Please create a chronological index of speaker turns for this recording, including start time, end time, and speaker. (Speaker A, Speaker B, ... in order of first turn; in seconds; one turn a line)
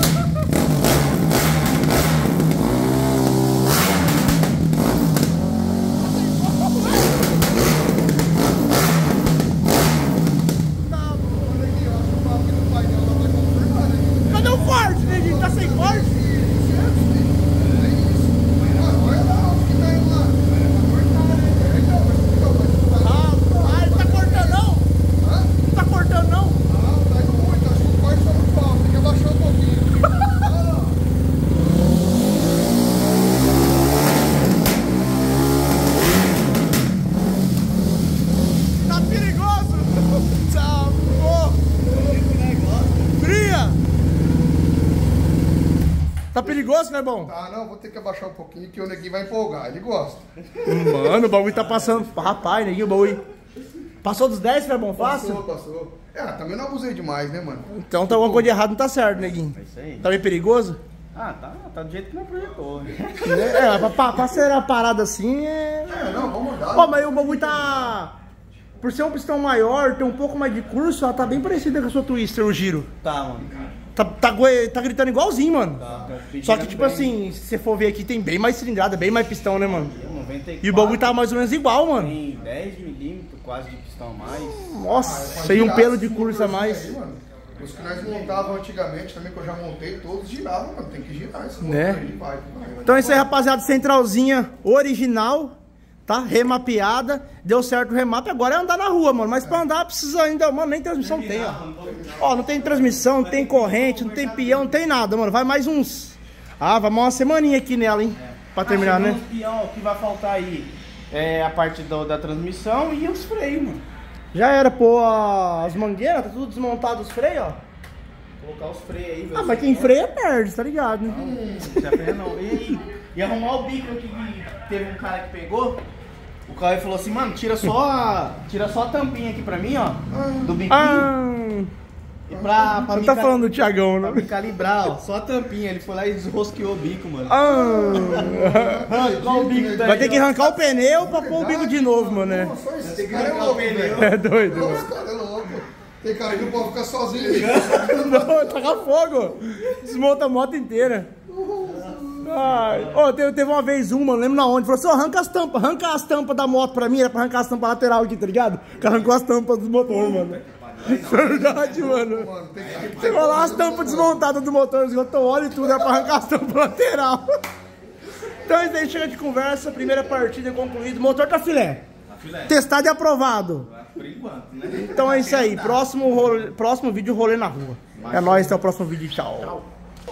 Speaker A: 6.0-7.3
Speaker A: 10.8-11.7
Speaker B: 11.3-20.5
Speaker A: 14.3-16.1
Speaker C: 17.5-18.0
Speaker C: 18.6-19.5
Speaker C: 20.4-21.8
Speaker B: 21.5-24.6
Speaker A: 23.0-24.9
Speaker B: 25.2-25.6
Speaker A: 25.6-26.6
Speaker B: 26.7-31.0
Speaker A: 38.8-41.7
Speaker C: 41.9-43.2
Speaker A: 43.2-43.8
Speaker A: 46.3-47.3
Speaker B: 47.2-50.2
Speaker C: 50.5-52.9
Speaker A: 50.6-53.2
Speaker A: 54.0-55.4
Speaker B: 55.0-58.5
Speaker A: 57.7-60.8
Speaker C: 59.3-60.1
Speaker C: 61.1-64.2
Speaker A: 63.2-66.2
Speaker B: 65.9-68.0
Speaker A: 66.7-68.2
Speaker A: 68.8-72.9
Speaker C: 73.0-73.7
Speaker A: 74.0-75.8
Speaker C: 75.8-77.2
Speaker A: 76.4-79.9
Speaker C: 79.5-81.2
Speaker A: 80.6-82.2
Speaker C: 81.8-84.8
Speaker A: 84.4-87.0
Speaker B: 84.9-93.3
Speaker C: 87.9-88.6
Speaker A: 91.6-92.0
Speaker A: 92.9-95.5
Speaker A: 96.1-101.6
Speaker C: 101.0-104.9
Speaker A: 102.2-109.2
Speaker C: 108.2-113.8
Speaker A: 114.3-117.6
Speaker C: 118.4-120.0
Speaker A: 119.3-121.3
Speaker C: 121.1-125.8
Speaker B: 121.1-121.9
Speaker C: 126.5-131.1
Speaker B: 130.1-130.6
Speaker A: 130.7-131.7
Speaker C: 132.3-140.3
Speaker B: 132.3-132.9
Speaker A: 132.9-134.3
Speaker A: 137.3-138.9
Speaker B: 137.4-149.0
Speaker A: 139.8-142.6
Speaker C: 142.8-144.2
Speaker A: 143.9-144.9
Speaker C: 147.2-148.1
Speaker A: 147.5-151.1
Speaker B: 151.3-152.3
Speaker C: 151.8-153.0
Speaker A: 152.2-167.4
Speaker C: 158.8-159.1
Speaker B: 159.9-160.3
Speaker C: 160.0-162.0
Speaker B: 161.1-164.3
Speaker C: 162.6-163.5
Speaker B: 165.6-166.0
Speaker A: 168.4-171.8
Speaker C: 172.1-172.6
Speaker A: 172.5-173.7
Speaker C: 173.6-176.1
Speaker A: 174.7-179.6
Speaker C: 177.9-178.6